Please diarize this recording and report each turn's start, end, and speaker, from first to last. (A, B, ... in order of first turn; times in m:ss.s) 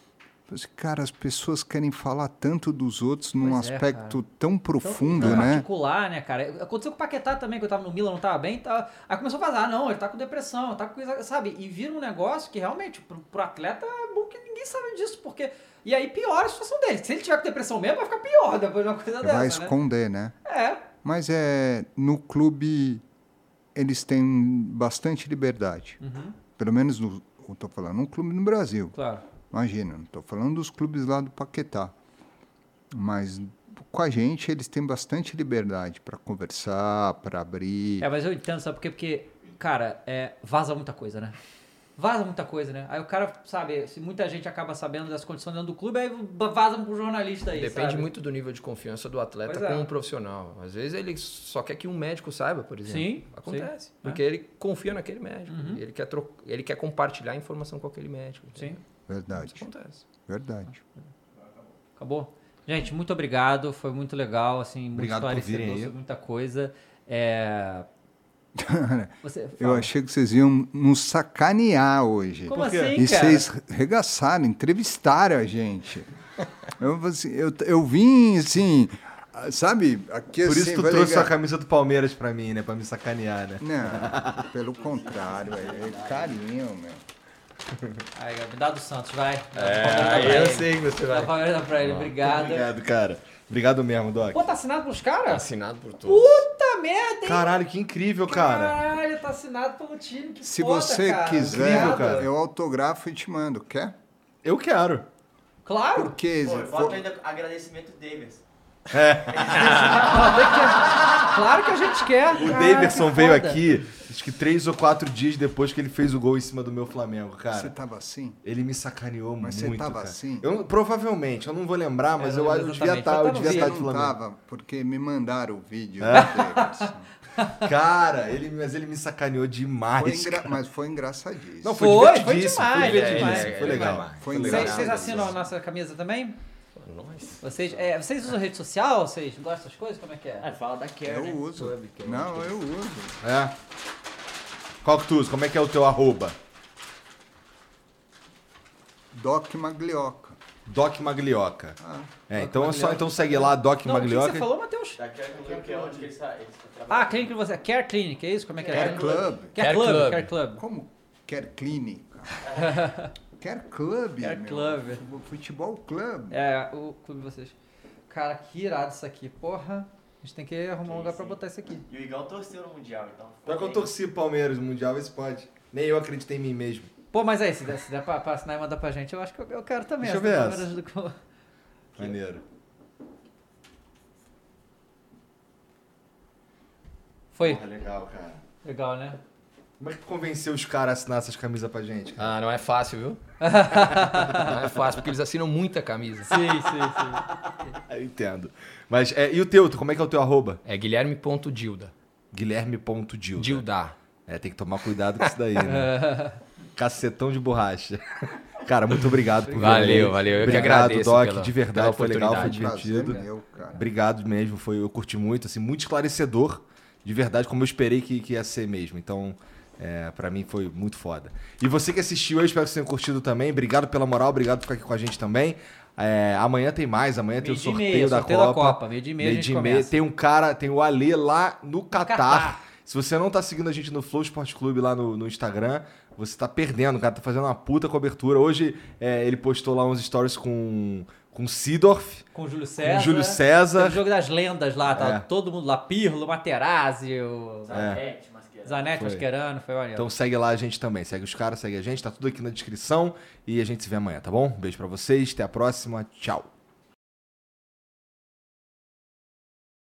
0:00.5-0:05.6 A
0:03.4-0:04.2 B
0:04.8-0:19.7 B
0:05.2-0:05.5 C
0:19.2-0:20.4 A
0:20.4-0:20.8 B
0:21.0-0:23.0 A
0:23.7-0:26.0 A
0:26.0-0:26.4 B
0:26.5-0:28.9 A
0:28.9-0:29.2 B
0:29.5-0:31.9 A
0:32.9-0:38.1 A
0:38.0-0:41.3 B
0:42.0-0:48.0 B
0:47.5-0:58.8 D
0:49.5-0:49.9 B
0:52.8-0:54.2 B
0:55.5-0:55.8 B
0:59.1-0:59.7 A
0:59.3-1:00.0 D
1:00.2-1:00.8 A
1:02.0-1:07.9 B
1:05.0-1:05.9 C
1:08.6-1:16.1 A
1:09.2-1:09.9 B
1:12.5-1:13.5 B
1:12.6-1:12.9 C
1:16.8-1:21.3 A
1:20.4-1:24.5 C
1:23.6-1:27.0 A
1:24.8-1:26.3 E
1:28.1-1:32.7 B
1:29.6-1:31.3 D
1:29.9-1:30.5 C
1:31.8-1:34.4 C
1:34.3-1:35.4 B
1:35.3-1:36.4 D
1:36.0-1:37.6 B
1:37.2-1:38.8 C
1:38.3-1:42.2 B
1:40.4-1:43.9 A
1:41.3-1:42.3 C
1:44.4-1:45.0 C
1:45.6-1:46.1 B
1:46.0-1:47.0 A
1:46.4-1:48.4 E
1:48.9-1:50.3 C
1:49.3-1:51.1 E
1:49.6-1:53.6 B
1:52.3-1:57.7 C
1:57.5-1:58.4 A
1:58.4-2:04.1 C
1:59.4-2:00.6 A
2:02.2-2:03.8 B
2:03.2-2:07.1 A
2:06.0-2:06.4 C
2:06.1-2:07.6 B
2:07.6-2:10.5 C
2:09.9-2:12.1 A
2:11.6-2:15.4 C
2:11.7-2:16.4 B
2:12.7-2:15.3 D
2:14.2-2:15.3 A
2:16.8-2:17.5 D
2:17.4-2:20.5 B
2:20.4-2:22.6 E
2:21.0-2:23.2 A
2:23.2-2:23.5 C
2:24.8-2:26.4 C
2:29.1-2:30.4 A
2:30.7-2:34.5 C
2:31.8-2:32.1 A
2:32.3-2:35.0 B
2:35.0-2:37.3 E
2:36.9-2:40.6 B
2:38.7-2:39.3 E
2:38.7-2:39.6 A
2:39.6-2:40.3 D
2:40.6-2:42.3 A
2:42.4-2:42.8 E
2:42.6-2:43.1 B
2:43.4-2:46.4 A
2:44.2-2:45.0 B
2:46.3-2:47.6 B
2:48.1-2:51.8 B
2:50.8-2:53.9 E
2:53.4-2:56.9 C
2:57.1-3:01.2 B
3:00.0-3:00.7 C
3:02.0-3:02.4 C
3:07.3-3:07.6 B
3:07.4-3:08.4 C
3:08.6-3:09.2 B
3:09.8-3:12.3 C
3:12.2-3:16.3 D
3:13.4-3:14.5 B
3:14.4-3:14.8 C
3:16.3-3:17.2 B
3:17.7-3:20.6 C
3:20.6-3:21.9 D
3:22.3-3:23.6 C
3:23.4-3:24.0 D
3:24.2-3:26.0 C
3:25.7-3:26.4 B
3:26.7-4:02.2 C
3:29.5-3:30.8 B
3:29.6-3:32.9 D
3:32.2-3:33.8 A
3:47.4-3:49.9 B
3:51.9-3:52.6 B
4:02.3-4:07.9 B
4:02.8-4:04.0 C
4:04.9-4:05.2 C
4:07.6-4:08.9 E
4:07.7-4:08.0 C
4:08.6-4:10.1 B
4:09.0-4:09.2 C
4:09.9-4:16.5 C